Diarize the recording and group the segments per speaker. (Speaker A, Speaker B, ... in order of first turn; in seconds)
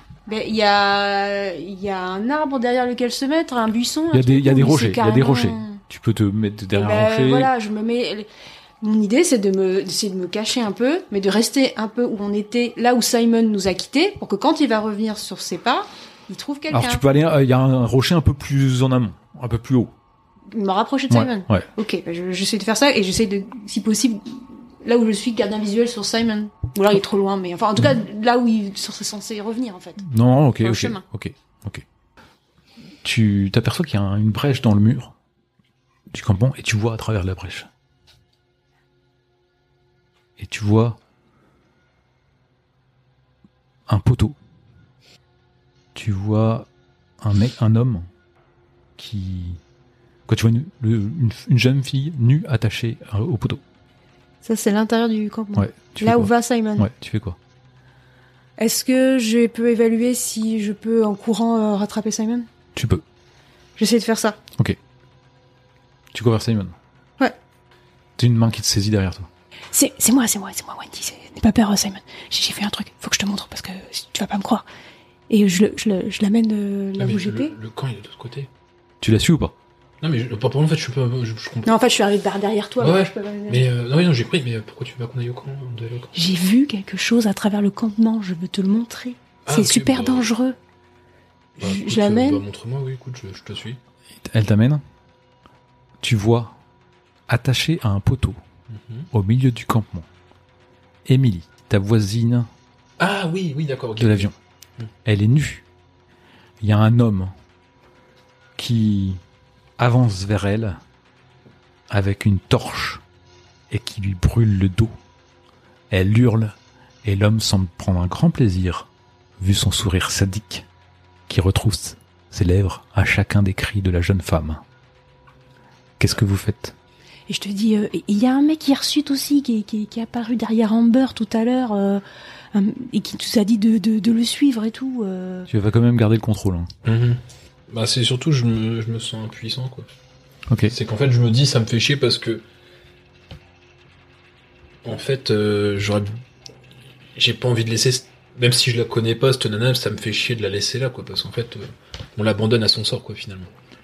Speaker A: 0.3-5.8, 6.7-8.3, 8.8-17.0, 20.5-30.1, 30.6-31.0, 54.4-56.9, 58.6-62.5, 63.8-64.4, 69.7-74.7, 75.3-77.5, 81.7-83.7, 86.1-90.6, 91.6-92.4, 127.3-135.5
Speaker B: 4.1-7.5, 16.7-19.9, 21.1-21.7, 30.0-31.8, 33.0-35.1, 36.1-37.7, 40.4-41.0, 43.9-44.4, 46.0-46.7, 47.2-48.1, 49.0-49.6, 50.3-53.6, 55.6-57.4, 62.8-63.0, 66.1-66.8, 68.2-69.3, 79.0-79.5, 94.2-94.8, 96.0-96.6, 97.3-98.4, 99.1-100.1, 101.0-102.5, 104.0-104.3, 105.0-105.7, 106.6-107.3, 108.6-109.2, 109.8-110.8, 111.9-113.0, 113.7-114.9, 115.9-118.9, 119.4-120.7, 121.3-124.6, 126.0-126.7, 135.5-136.7, 140.5-140.7
Speaker C: 77.0-78.5, 80.0-81.7, 82.8-86.1, 89.5-90.3, 91.6-93.8, 98.7-99.1, 103.0-104.9, 136.8-139.9, 140.7-142.4, 144.8-146.2, 147.2-153.5